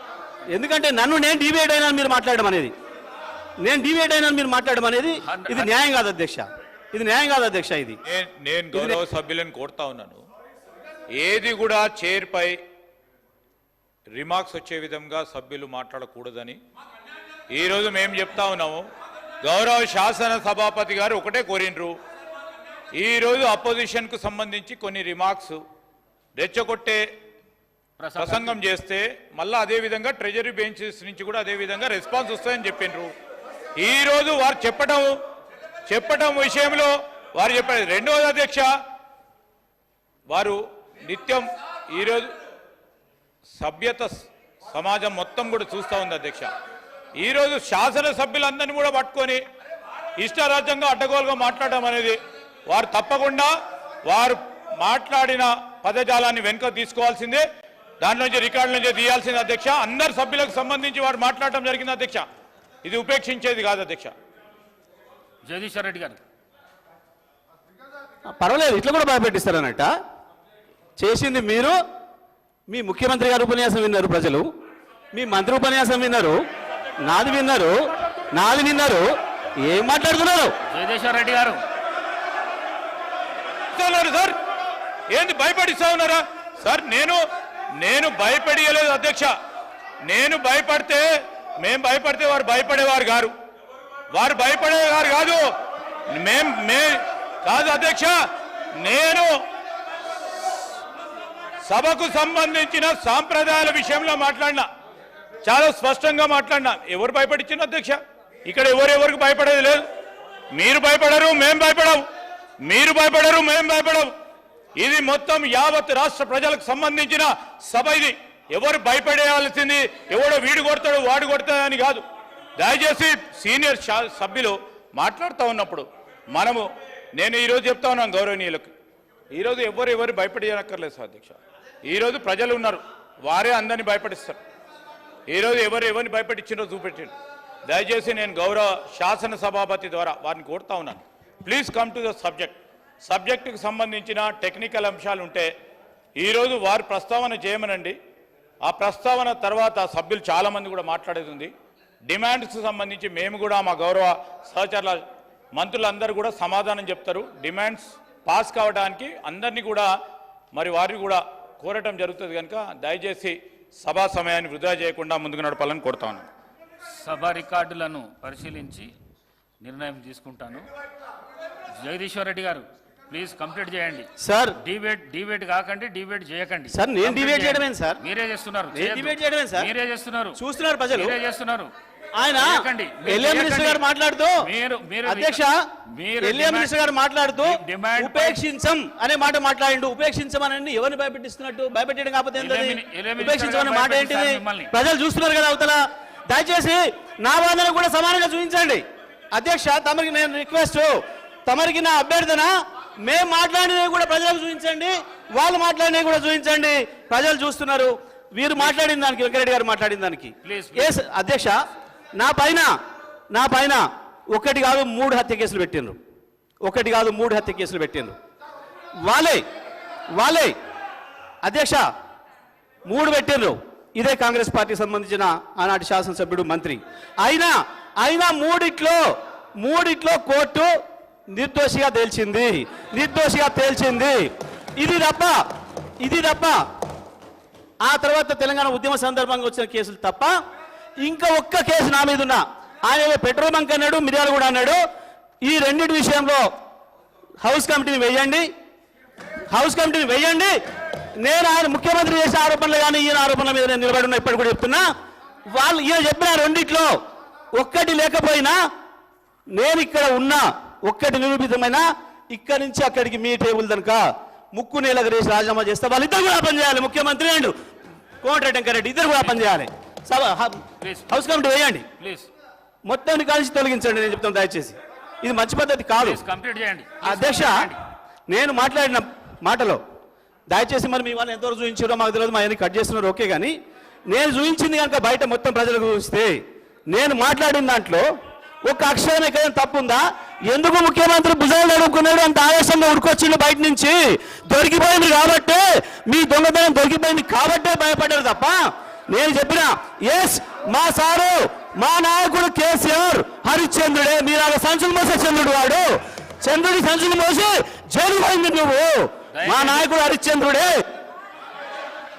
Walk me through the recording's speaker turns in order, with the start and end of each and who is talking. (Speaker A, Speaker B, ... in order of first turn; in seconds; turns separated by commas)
Speaker A: 0.5-2.7, Speaker A: 3.6-8.0, Speaker B: 8.1-10.2, Speaker A: 8.7-9.0, Speaker B: 11.2-12.6, Speaker B: 14.2-16.6, Speaker B: 17.5-18.8, Speaker B: 19.4-21.9, Speaker B: 22.9-25.6, Speaker B: 26.4-27.0, Speaker C: 28.0-28.6, Speaker B: 28.2-33.1, Speaker B: 33.8-35.1, Speaker B: 35.9-38.7, Speaker B: 40.3-42.3, Speaker B: 43.5-46.5, Speaker B: 47.2-49.4, Speaker B: 50.2-53.5, Speaker B: 54.1-57.4, Speaker B: 58.0-62.2, Speaker B: 62.8-64.1, Speaker C: 65.4-66.2, Speaker A: 68.3-69.9, Speaker A: 71.0-71.8, Speaker A: 72.7-74.5, Speaker A: 75.1-76.4, Speaker A: 77.0-79.1, Speaker A: 79.6-80.5, Speaker C: 80.7-81.6, Speaker B: 83.7-84.3, Speaker B: 85.1-87.2, Speaker B: 87.8-89.3, Speaker B: 90.1-91.0, Speaker B: 91.6-93.3, Speaker B: 94.1-95.4, Speaker B: 96.1-98.1, Speaker B: 98.8-99.3, Speaker B: 101.6-104.7, Speaker B: 105.4-109.8, Speaker B: 110.5-112.0, Speaker B: 112.7-114.1, Speaker B: 114.8-122.0, Speaker B: 122.6-126.6, Speaker B: 127.2-128.7, Speaker B: 129.3-134.4, Speaker B: 135.3-137.1, Speaker B: 137.7-145.5, Speaker B: 146.2-147.9, Speaker B: 148.7-151.5, Speaker B: 152.1-155.0, Speaker B: 155.5-159.9, Speaker B: 160.5-166.3, Speaker C: 166.9-168.9, Speaker C: 169.6-170.7, Speaker C: 171.8-174.1, Speaker A: 174.2-174.6, Speaker C: 174.6-180.4, Speaker A: 176.7-178.0, Speaker A: 178.7-179.7, Speaker A: 180.3-181.2, Speaker C: 180.9-181.7, Speaker A: 182.1-211.6, Speaker C: 182.3-183.8, Speaker C: 184.4-185.4, Speaker C: 185.9-186.8, Speaker C: 187.4-188.4, Speaker C: 192.4-194.7, Speaker C: 210.4-210.9, Speaker A: 212.1-212.7, Speaker A: 213.3-216.0, Speaker A: 216.6-218.2, Speaker A: 219.0-219.4, Speaker A: 220.1-220.6, Speaker A: 221.4-221.8, Speaker A: 222.8-229.0, Speaker A: 229.6-230.7, Speaker A: 231.3-235.4, Speaker A: 236.0-236.6, Speaker A: 237.8-240.3, Speaker A: 241.0-244.8, Speaker A: 245.4-246.4, Speaker A: 247.4-248.5, Speaker A: 249.5-250.5, Speaker A: 251.2-254.8, Speaker A: 255.5-257.0, Speaker A: 257.5-258.6, Speaker A: 259.5-267.6, Speaker A: 268.2-271.9, Speaker C: 270.8-271.2, Speaker C: 271.9-272.3, Speaker A: 272.8-276.2, Speaker C: 276.0-277.8, Speaker A: 277.0-279.8, Speaker A: 280.5-288.1, Speaker A: 288.6-310.8, Speaker C: 309.5-309.8